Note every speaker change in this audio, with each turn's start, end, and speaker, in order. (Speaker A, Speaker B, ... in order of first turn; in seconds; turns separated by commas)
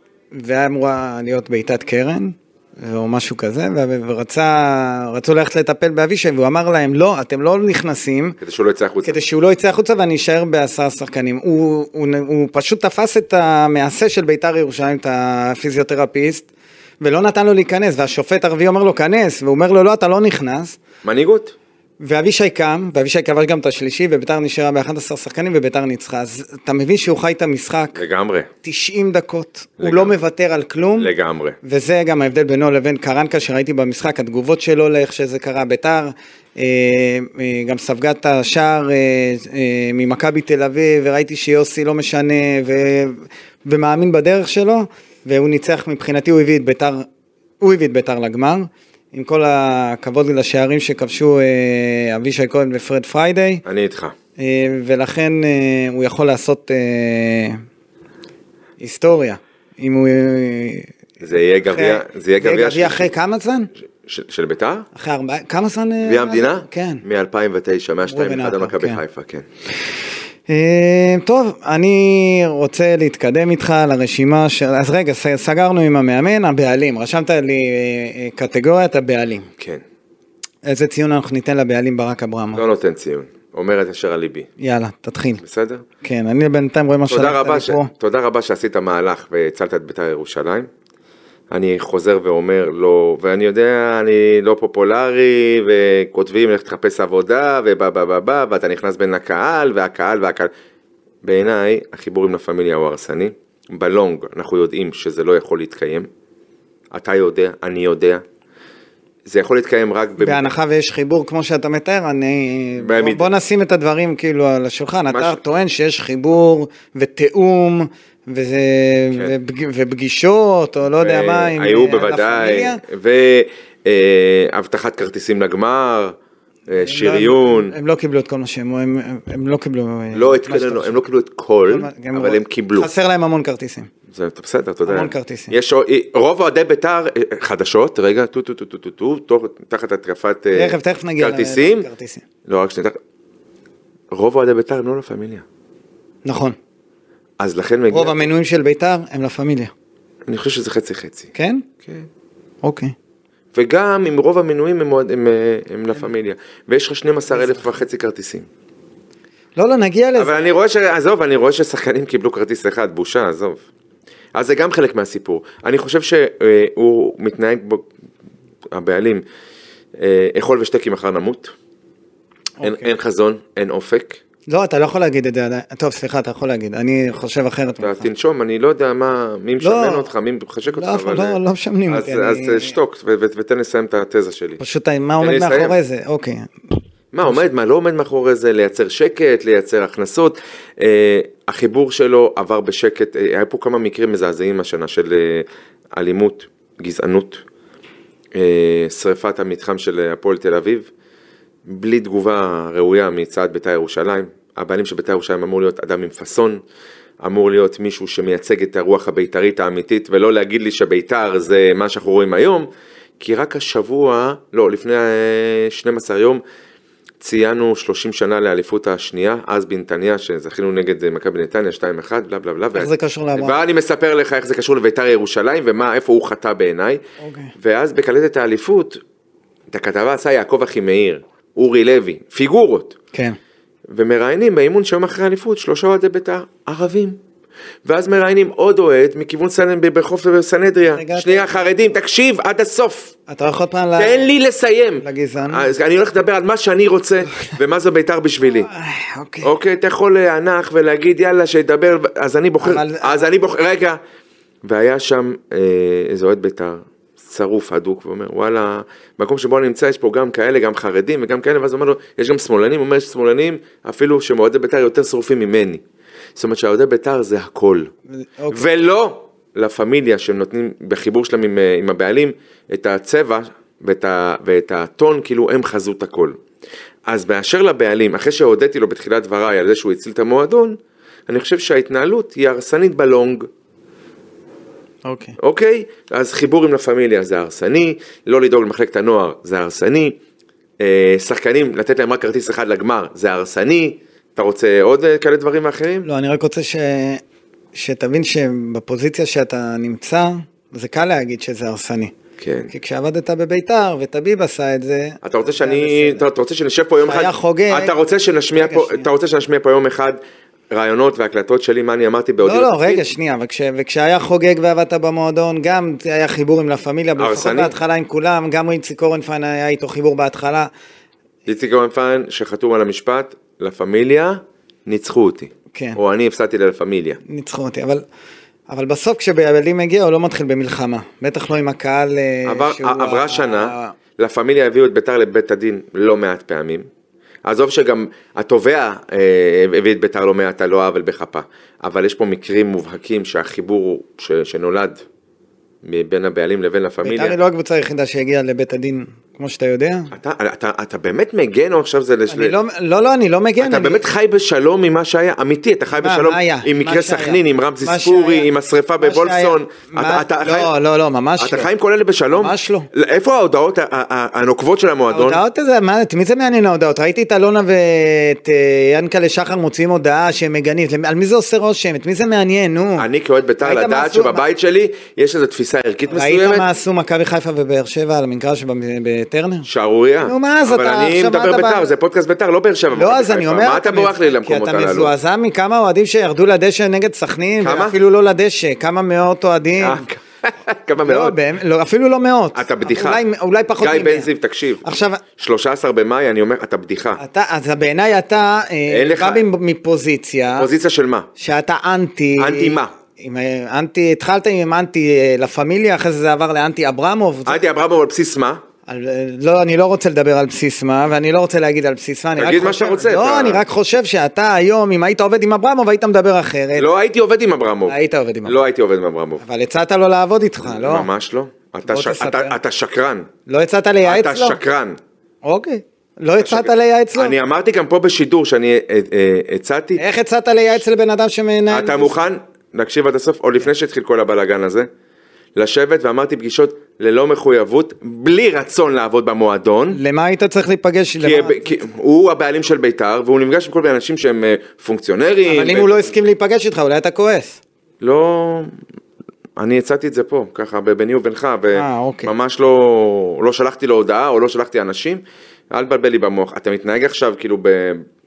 Speaker A: 0.3-8.4, Speaker B: 8.4-9.2, Speaker A: 9.0-16.5, Speaker A: 17.0-20.8, Speaker B: 21.0-21.6, Speaker A: 22.0-28.0, Speaker B: 28.0-28.5, Speaker A: 28.6-31.1, Speaker B: 29.8-30.1, Speaker B: 31.0-31.6, Speaker A: 31.6-47.1, Speaker A: 47.6-53.6, Speaker B: 53.6-54.1, Speaker A: 54.4-57.6, Speaker A: 58.8-60.9, Speaker B: 61.2-63.1, Speaker A: 61.7-63.7, Speaker B: 64.0-64.9, Speaker A: 65.0-67.0, Speaker B: 66.0-69.5, Speaker A: 68.1-69.0, Speaker A: 70.5-79.5, Speaker A: 80.7-82.6, Speaker B: 82.5-84.5, Speaker A: 84.6-85.4, Speaker B: 85.4-85.8, Speaker A: 86.0-87.9, Speaker B: 87.1-90.7, Speaker B: 91.5-100.5, Speaker B: 101.2-106.1, Speaker B: 106.9-108.2, Speaker B: 109.3-110.5, Speaker A: 110.2-122.8, Speaker B: 112.8-113.3, Speaker B: 115.1-115.4, Speaker B: 121.0-126.2, Speaker B: 126.7-127.8, Speaker A: 126.8-131.0, Speaker B: 130.1-132.9, Speaker A: 131.7-133.9, Speaker B: 134.1-141.9, Speaker A: 134.8-135.6, Speaker A: 140.5-142.2, Speaker B: 142.4-143.0, Speaker B: 144.1-145.4, Speaker A: 146.2-146.6, Speaker B: 147.4-148.2, Speaker A: 147.9-149.7, Speaker B: 150.3-151.3, Speaker A: 151.3-151.7, Speaker A: 152.6-152.9, Speaker B: 153.5-158.5, Speaker A: 157.3-157.7, Speaker A: 159.6-160.3, Speaker B: 160.2-163.6, Speaker B: 164.3-167.9, Speaker B: 168.7-169.2, Speaker B: 170.0-171.5, Speaker A: 172.6-172.9, Speaker B: 172.6-174.2, Speaker A: 174.5-178.1, Speaker B: 177.8-181.4, Speaker A: 179.6-180.1, Speaker A: 180.7-182.8, Speaker B: 181.9-184.6, Speaker A: 184.6-186.8, Speaker B: 185.2-185.8, Speaker B: 187.1-197.4, Speaker B: 198.3-200.9, Speaker B: 201.7-206.6, Speaker B: 207.2-212.7, Speaker B: 213.2-216.4, Speaker B: 217.2-227.0, Speaker A: 222.8-223.6, Speaker A: 227.2-227.5, Speaker B: 227.6-229.0, Speaker B: 229.7-233.0, Speaker A: 233.1-233.4, Speaker B: 233.9-237.2, Speaker B: 237.8-243.1, Speaker A: 240.9-241.6, Speaker A: 243.3-244.2, Speaker B: 244.0-248.7, Speaker A: 245.0-245.7, Speaker A: 248.5-249.5, Speaker B: 249.4-254.0, Speaker A: 252.6-253.2, Speaker B: 254.6-265.8, Speaker B: 266.4-267.9, Speaker A: 268.4-268.7, Speaker B: 268.5-276.4, Speaker B: 277.1-280.8, Speaker B: 281.3-283.5, Speaker A: 285.1-285.4, Speaker B: 285.4-290.2, Speaker B: 290.8-296.1, Speaker A: 296.1-297.2, Speaker A: 297.8-302.1, Speaker B: 302.4-302.7, Speaker A: 302.7-306.2, Speaker B: 305.2-310.2, Speaker A: 307.0-307.9, Speaker A: 308.6-309.1, Speaker B: 310.7-313.0, Speaker A: 312.4-320.7, Speaker B: 317.2-317.8, Speaker B: 321.5-327.2, Speaker A: 325.7-326.0, Speaker A: 327.3-328.0, Speaker A: 328.7-333.9, Speaker B: 332.5-336.9, Speaker B: 337.4-345.0, Speaker B: 345.8-347.4, Speaker A: 347.0-350.1, Speaker B: 350.1-352.6, Speaker A: 352.3-354.1, Speaker B: 353.6-360.7, Speaker A: 356.0-361.7, Speaker B: 361.4-365.4, Speaker A: 362.3-362.9, Speaker A: 365.1-373.1, Speaker B: 373.0-376.6, Speaker A: 373.6-374.4, Speaker A: 376.1-379.7, Speaker B: 379.6-385.1, Speaker A: 380.2-381.9, Speaker A: 382.9-390.1, Speaker B: 387.6-388.0, Speaker B: 389.8-391.4, Speaker A: 391.0-394.3, Speaker B: 392.6-393.2, Speaker B: 393.8-394.8, Speaker A: 394.8-395.2, Speaker B: 395.4-397.2, Speaker A: 397.2-400.7, Speaker B: 398.9-399.4, Speaker B: 400.6-401.3, Speaker A: 401.4-407.6, Speaker B: 402.4-402.9, Speaker B: 407.5-408.6, Speaker A: 408.9-416.9, Speaker B: 412.4-413.6, Speaker B: 416.8-419.4, Speaker A: 417.9-418.6, Speaker A: 419.4-421.1, Speaker B: 420.6-423.3, Speaker A: 421.9-422.6, Speaker A: 423.5-424.6, Speaker B: 424.0-425.0, Speaker A: 425.4-427.3, Speaker B: 426.4-430.0, Speaker A: 430.0-432.1, Speaker B: 431.7-434.9, Speaker B: 435.6-440.0, Speaker A: 439.9-441.8, Speaker B: 441.2-446.1, Speaker A: 445.4-447.6, Speaker B: 448.0-448.7, Speaker B: 449.6-458.1, Speaker A: 451.7-452.3